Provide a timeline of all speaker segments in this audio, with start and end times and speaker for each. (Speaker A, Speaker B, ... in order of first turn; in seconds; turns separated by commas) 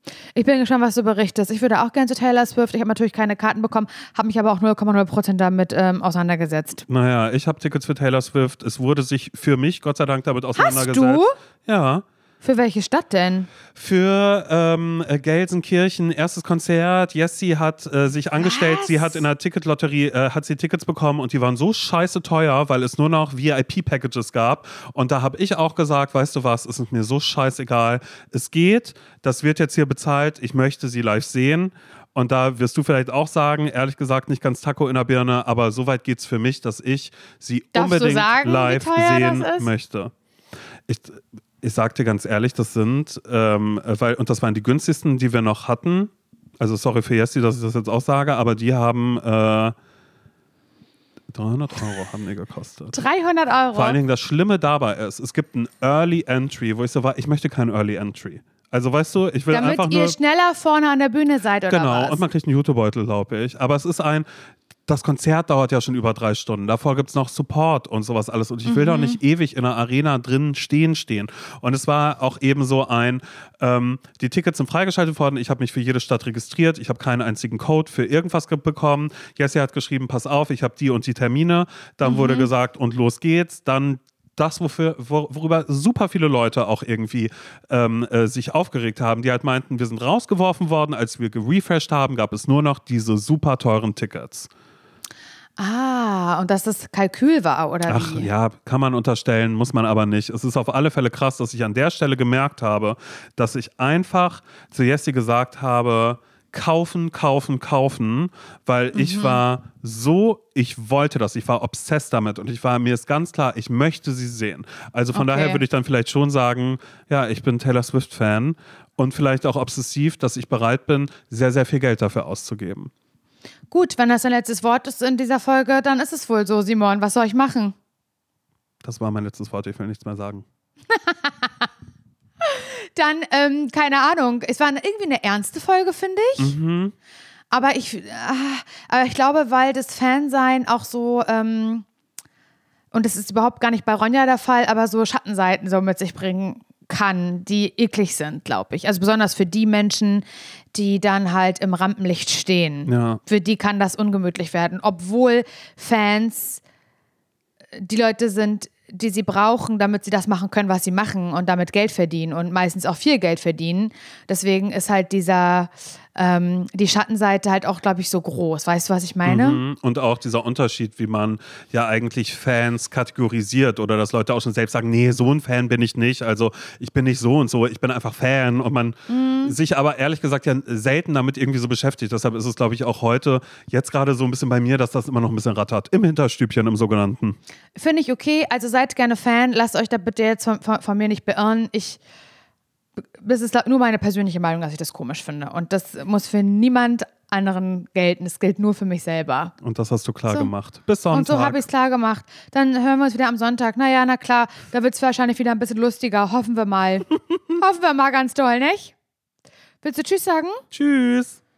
Speaker A: 0.4-6.8, Speaker B: 6.9-12.0, Speaker A: 10.6-11.3, Speaker A: 12.4-13.5, Speaker B: 13.8-40.1, Speaker A: 18.4-19.2, Speaker A: 37.8-39.7, Speaker B: 40.9-49.8, Speaker B: 51.3-53.0, Speaker A: 52.9-54.0, Speaker B: 53.7-60.2, Speaker A: 59.5-62.2, Speaker B: 61.7-64.2, Speaker B: 64.9-94.5, Speaker A: 68.7-69.2, Speaker A: 82.0-82.5, Speaker A: 95.6-98.3, Speaker B: 97.9-122.9, Speaker A: 108.9-109.4, Speaker A: 115.1-115.6, Speaker A: 123.7-127.8, Speaker B: 128.8-130.4, Speaker A: 130.9-131.7, Speaker A: 132.4-136.6, Speaker B: 136.4-136.9, Speaker A: 137.5-141.9, Speaker A: 142.9-156.6, Speaker B: 152.9-153.2, Speaker A: 157.8-169.6, Speaker B: 169.2-187.4, Speaker A: 179.1-179.5, Speaker A: 187.8-192.0, Speaker A: 193.2-199.5, Speaker B: 199.6-201.6, Speaker A: 201.1-208.9, Speaker A: 209.8-210.6, Speaker B: 210.7-211.4